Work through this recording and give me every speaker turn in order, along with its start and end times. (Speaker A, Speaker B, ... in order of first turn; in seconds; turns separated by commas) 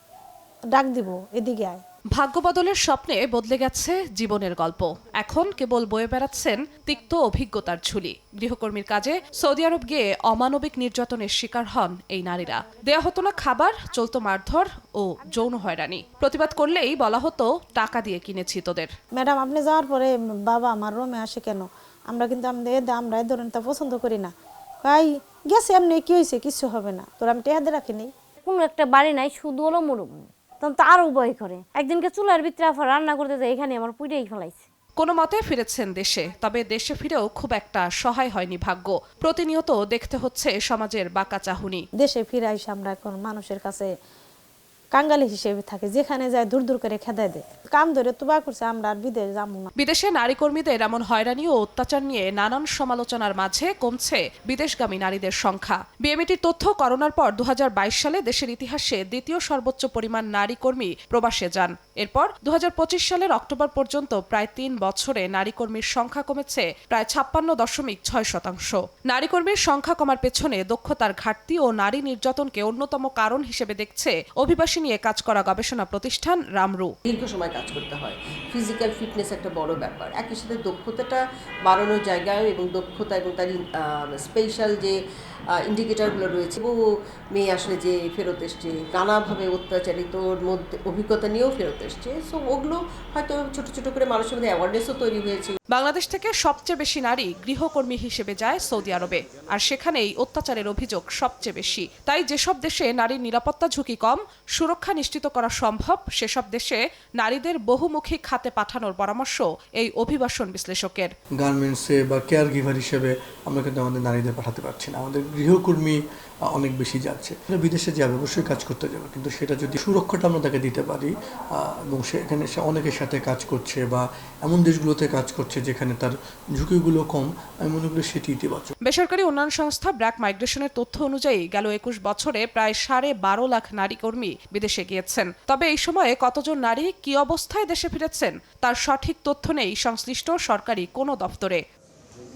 Speaker A: 0.7-1.8, Speaker B: 2.1-18.9, Speaker A: 19.1-28.1, Speaker C: 28.4-34.7, Speaker B: 35.0-41.8, Speaker A: 42.0-43.9, Speaker A: 44.9-49.7, Speaker B: 49.8-76.9, Speaker D: 77.0-85.0, Speaker D: 85.6-86.7, Speaker D: 87.3-95.5, Speaker B: 95.7-111.1, Speaker E: 111.4-116.0, Speaker E: 116.5-128.7, Speaker B: 128.8-141.6